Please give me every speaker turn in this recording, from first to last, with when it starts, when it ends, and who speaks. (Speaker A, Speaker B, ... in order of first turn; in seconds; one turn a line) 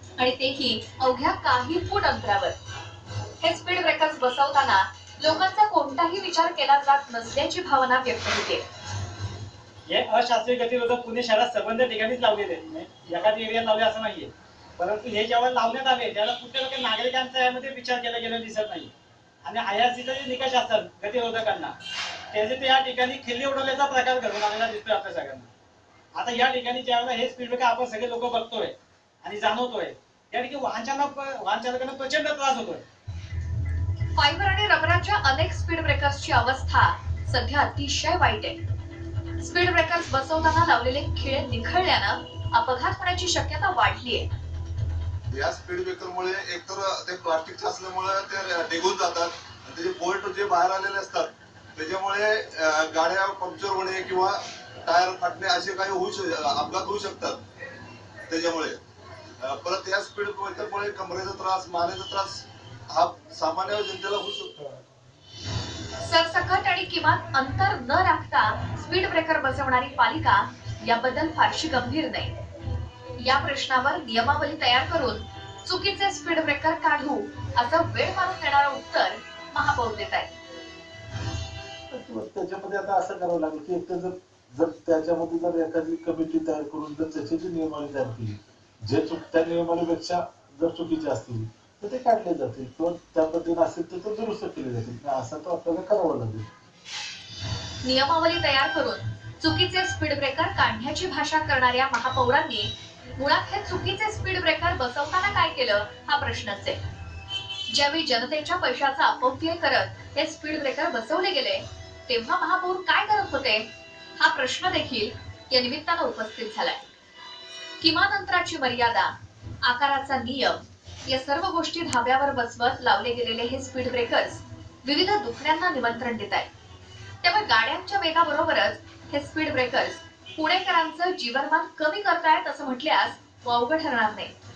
Speaker A: 0.2-2.5
Speaker A: 3.4-8.6
Speaker B: 9.9-18.9
Speaker B: 19.4-21.8
Speaker B: 22.3-25.5
Speaker B: 26.1-32.8
Speaker A: 34.1-38.6
Speaker A: 39.4-44.3
Speaker C: 45.3-57.4
Speaker C: 58.3-58.8
Speaker C: 59.4-64.6
Speaker A: 66.0-72.3
Speaker A: 73.2-80.3
Speaker D: 81.9-96.5
Speaker A: 97.8-106.8
Speaker A: 107.7-116.9
Speaker A: 117.8-126.5
Speaker A: 127.2-134.3